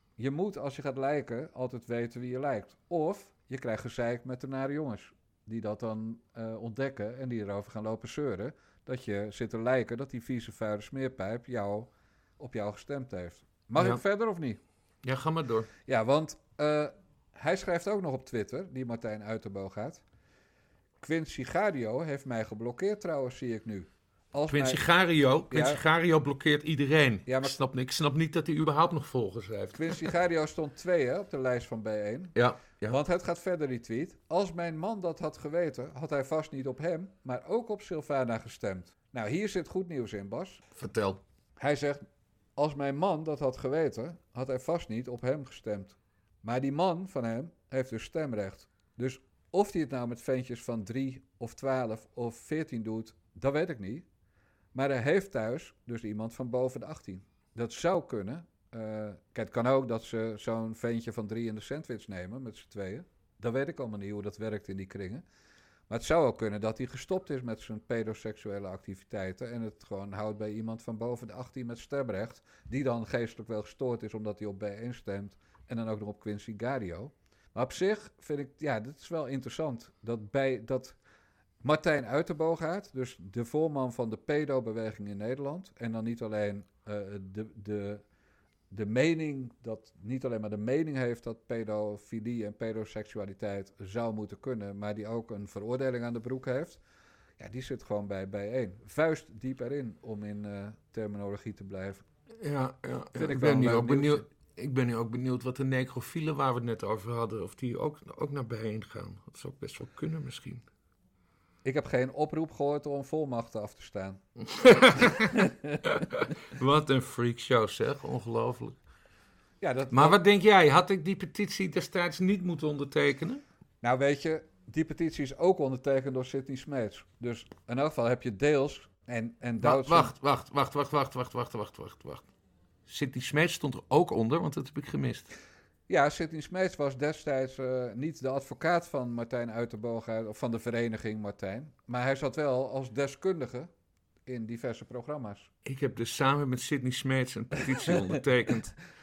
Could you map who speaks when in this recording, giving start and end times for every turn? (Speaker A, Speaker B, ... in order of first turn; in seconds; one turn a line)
Speaker A: 0.2-14.6
Speaker B: 15.0-15.7
Speaker A: 15.9-20.0
Speaker A: 21.0-24.8
Speaker B: 24.5-30.1
Speaker A: 25.5-25.8
Speaker A: 27.3-27.6
Speaker A: 29.7-32.3
Speaker B: 32.4-33.0
Speaker A: 32.9-40.6
Speaker B: 40.8-41.2
Speaker A: 41.6-42.0
Speaker A: 42.6-54.0
Speaker A: 54.7-65.2
Speaker A: 65.9-81.0
Speaker A: 81.6-88.0
Speaker A: 88.7-96.8
Speaker A: 97.4-102.0
Speaker B: 102.4-110.6
Speaker A: 103.1-104.2
Speaker A: 111.6-114.2
Speaker B: 114.5-115.3
Speaker A: 115.3-115.8
Speaker B: 115.8-118.8
Speaker A: 119.6-120.2
Speaker B: 119.9-123.4
Speaker A: 123.8-130.1
Speaker B: 129.6-132.2
Speaker B: 132.9-135.3
Speaker A: 135.9-143.7
Speaker A: 144.3-145.5
Speaker B: 145.7-148.8